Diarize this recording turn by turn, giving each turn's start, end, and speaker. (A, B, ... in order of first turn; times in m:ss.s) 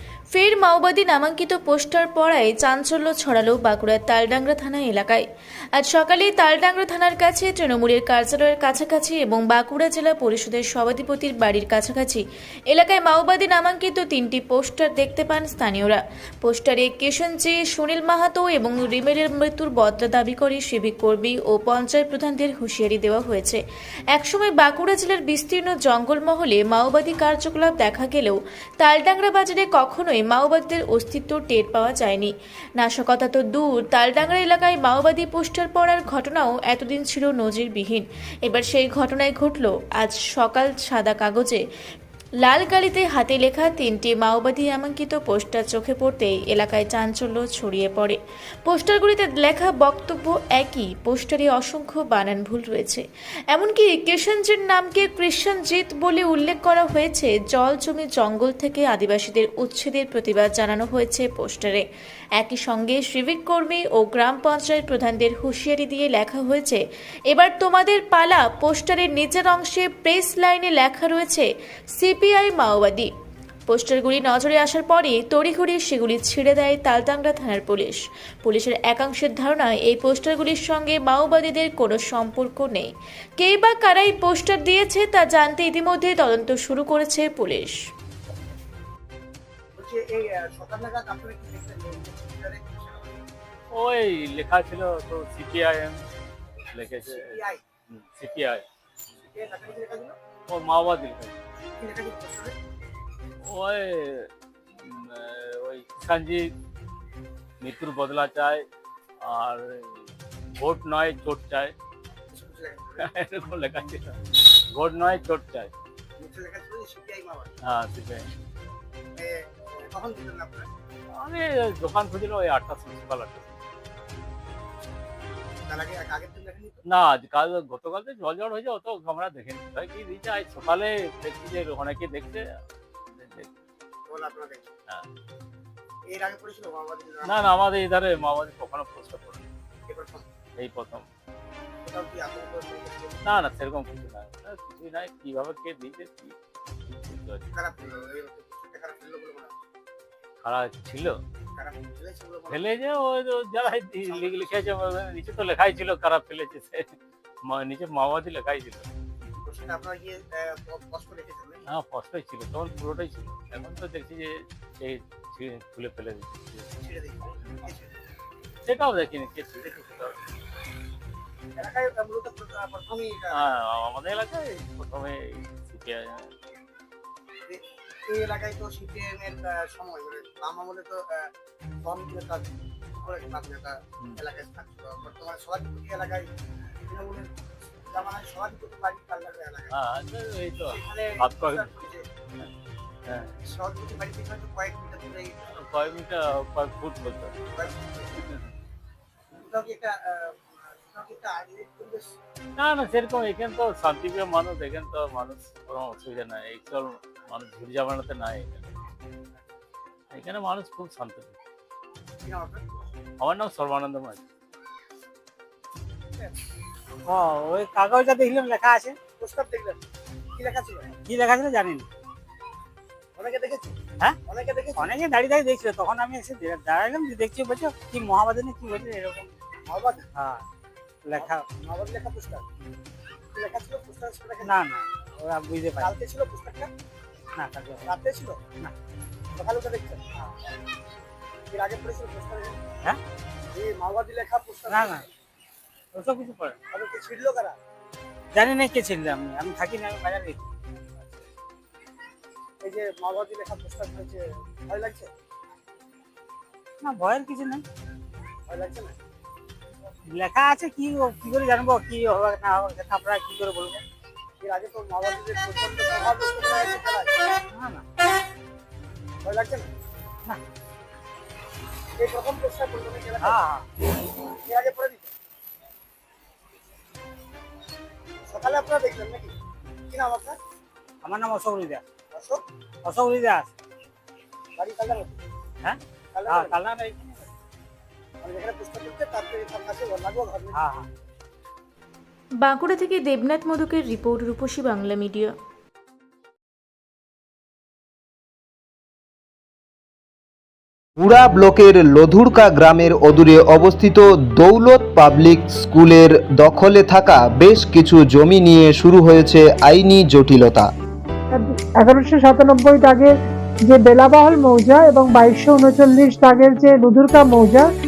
0:00.3-0:23.6 A
0:24.1-0:41.6 A
0:42.4-1:01.8 A
1:02.4-1:13.1 A
1:13.7-1:27.8 A
1:29.8-1:33.2 B
1:33.7-1:36.0 C
1:36.7-1:37.4 C
1:36.8-1:37.6 B
1:37.9-1:38.6 C
1:39.3-1:40.2 B
1:40.5-1:41.4 C
1:41.8-1:42.6 B
1:43.4-1:46.5 C
1:47.6-1:48.7 C
1:49.2-1:50.1 C
1:50.6-1:51.7 C
1:52.3-1:53.1 B
1:53.0-1:54.2 C
1:54.7-1:55.7 C
1:56.2-1:57.5 B
1:57.7-1:58.3 C
1:59.2-2:00.7 B
2:01.2-2:03.6 C
2:05.7-2:06.8 B
2:06.9-2:12.4 C
2:13.1-2:13.5 C
2:14.1-2:14.7 B
2:16.1-2:17.5 B
2:17.2-2:19.5 C
2:19.9-2:20.3 B
2:20.6-2:21.1 C
2:21.8-2:23.2 B
2:23.2-2:27.4 C
2:27.5-2:29.5 B
2:30.4-2:31.2 C
2:31.5-2:32.7 B
2:32.5-2:38.9 C
2:34.1-2:34.7 B
2:39.4-2:41.7 B
2:41.7-2:46.7 C
2:46.7-2:48.0 B
2:48.7-2:50.2 C
2:51.6-2:53.5 B
2:53.4-2:56.3 C
2:57.5-3:01.3 B
3:01.8-3:06.3 B
3:06.9-3:07.3 B
3:07.9-3:09.7 B
3:09.7-3:11.8 C
3:10.7-3:12.1 B
3:13.5-3:15.5 B
3:15.5-3:17.3 C
3:17.5-3:18.1 B
3:19.4-3:22.1 B
3:22.6-3:28.7 C
3:30.1-3:31.4 C
3:32.2-3:32.9 B
3:33.2-3:34.2 C
3:37.1-3:39.0 D
3:39.2-3:39.8 B
3:40.4-3:40.9 B
3:41.0-3:41.9 D
3:43.2-3:44.9 B
3:44.8-3:49.3 D
3:49.7-3:50.1 B
3:50.2-3:50.4 D
3:51.0-3:51.4 D
3:51.2-3:52.4 B
3:53.3-3:54.6 B
3:54.4-3:55.9 D
3:55.8-3:56.7 B
3:57.4-3:57.9 D
3:57.8-3:58.4 B
3:59.4-4:00.2 B
4:01.5-4:02.6 B
4:03.5-4:05.0 B
4:04.7-4:05.1 D
4:05.9-4:06.6 D
4:06.7-4:07.6 B
4:08.3-4:10.4 D
4:12.6-4:15.1 B
4:16.8-4:17.6 D
4:18.5-4:19.0 B
4:20.1-4:23.8 D
4:24.4-4:27.1 B
4:27.5-4:27.8 D
4:29.2-4:29.7 B
4:32.0-4:33.4 B
4:33.2-4:33.7 D
4:34.4-4:35.1 B
4:38.3-4:39.4 B
4:39.9-4:40.4 B
4:41.0-4:41.8 D
4:42.1-4:42.4 B
4:42.8-4:43.5 D
4:44.6-4:45.2 B
4:45.6-4:47.3 D
4:46.1-4:46.6 B
4:48.2-4:50.6 B
4:50.5-4:50.9 D
4:52.4-4:55.3 A
5:01.0-5:10.7 E
5:11.3-5:13.1 F
5:13.7-5:17.7 F